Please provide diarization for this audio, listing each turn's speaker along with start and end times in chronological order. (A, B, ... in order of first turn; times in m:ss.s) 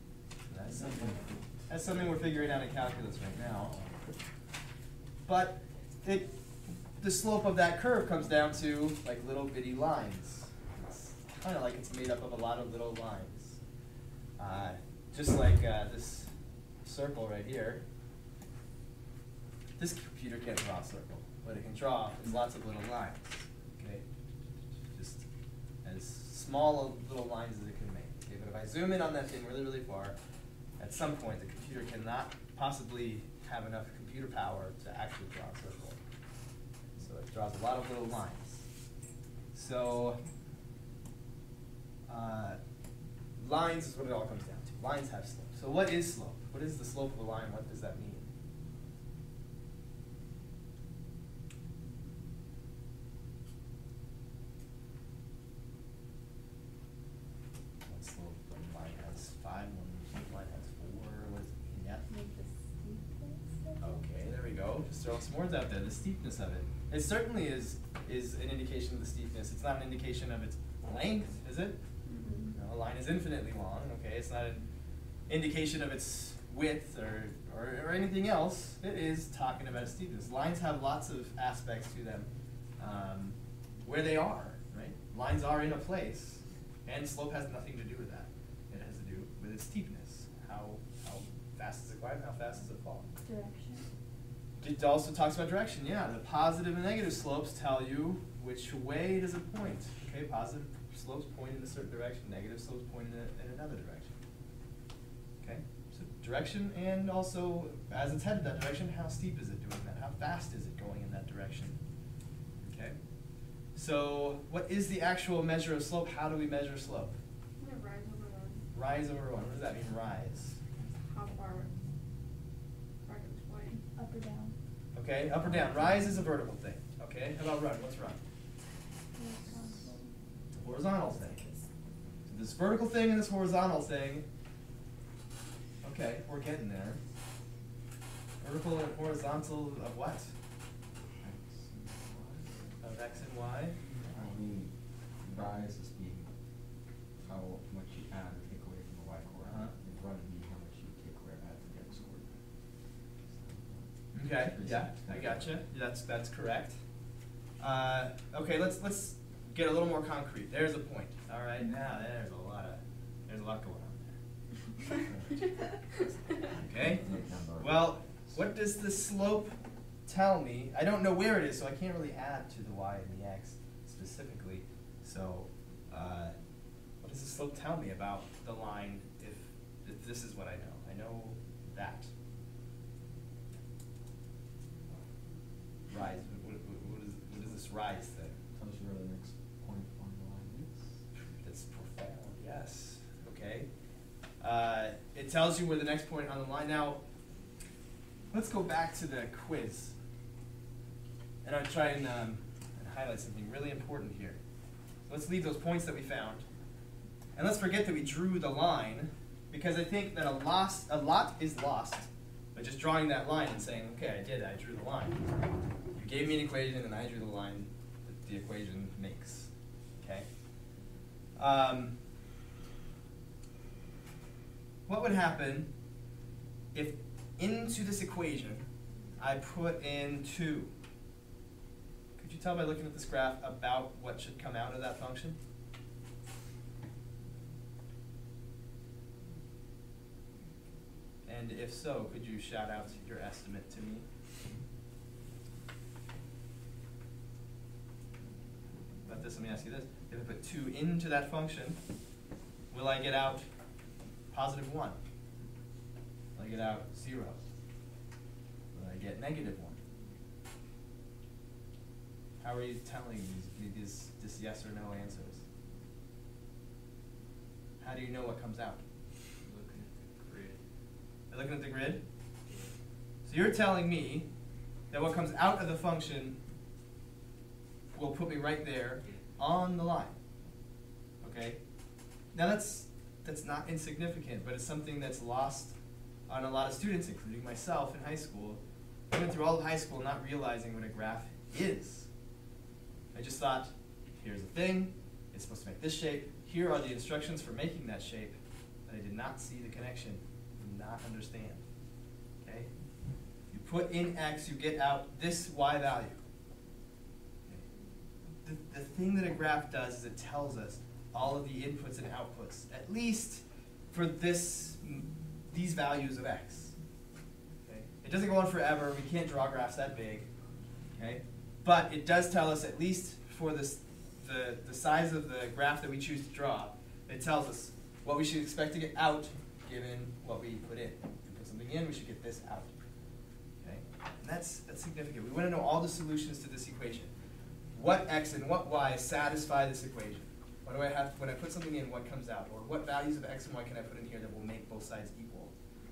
0:00.5-0:03.8 A
0:00.8-0:01.2 B
0:05.2-0:06.3 A
0:07.0-0:13.6 A
0:14.4-0:16.3 A
0:16.8-0:17.8 A
0:19.8-0:24.0 A
0:24.9-0:25.2 A
0:25.8-0:30.2 A
0:30.8-0:36.0 A
0:37.0-0:38.7 A
0:39.5-0:40.2 A
0:42.1-0:42.6 A
0:43.4-0:48.3 A
0:57.8-1:02.0 A
1:02.1-1:03.9 C
1:03.8-1:11.8 A
1:12.0-1:12.4 D
1:12.2-1:12.5 C
1:12.5-1:14.7 A
1:15.2-1:33.1 A
1:33.2-1:33.9 C
1:34.6-1:44.2 A
1:45.4-1:51.8 A
1:52.6-1:53.0 A
1:53.7-1:57.2 A
1:57.6-1:58.6 D
1:58.7-2:00.6 A
2:01.0-2:01.7 D
2:03.0-2:03.8 D
2:03.6-2:04.5 C
2:04.9-2:08.2 A
2:05.8-2:06.1 C
2:09.1-2:10.1 C
2:10.6-2:11.6 A
2:12.2-2:14.3 A
2:15.8-2:17.0 A
2:18.4-2:20.3 A
2:21.2-2:22.6 B
2:22.8-2:23.8 A
2:24.0-2:26.3 B
2:27.2-2:32.4 B
2:29.4-2:29.7 A
2:33.2-2:35.5 B
2:34.1-2:36.8 A
2:37.6-2:44.1 A
2:45.1-2:45.4 B
2:46.4-2:48.4 B
2:46.6-2:49.5 A
2:50.0-2:56.4 A
2:57.0-3:02.1 A
3:05.9-3:08.4 A
3:08.5-3:11.0 B
3:11.4-3:13.7 A
3:14.4-3:17.0 A
3:18.3-3:20.0 A
3:21.4-3:24.4 A
3:25.1-3:26.4 A
3:27.3-3:35.2 A
3:35.9-3:40.3 A
3:41.4-3:42.0 A
3:44.9-3:45.7 A
3:46.7-3:50.7 A
3:52.2-3:55.4 A
4:01.2-4:04.0 A
4:09.0-4:11.8 A
4:12.7-4:13.5 A
4:14.3-4:15.0 A
4:16.3-4:17.4 A
4:18.7-4:19.8 A
4:22.4-4:25.4 A
4:27.8-4:28.8 A
4:29.4-4:30.6 B
4:31.3-4:32.0 A
4:32.5-4:32.8 B
4:33.2-4:34.3 A
4:34.9-4:36.4 A
4:37.9-4:40.1 A
4:41.2-4:41.6 A
4:42.3-4:52.1 A
4:53.1-5:01.6 A
5:02.4-5:02.8 A
5:03.5-5:06.2 A
5:08.4-5:16.7 A
5:17.6-5:20.3 A
5:21.0-5:32.7 A
5:33.6-5:37.1 A
5:37.7-5:45.5 A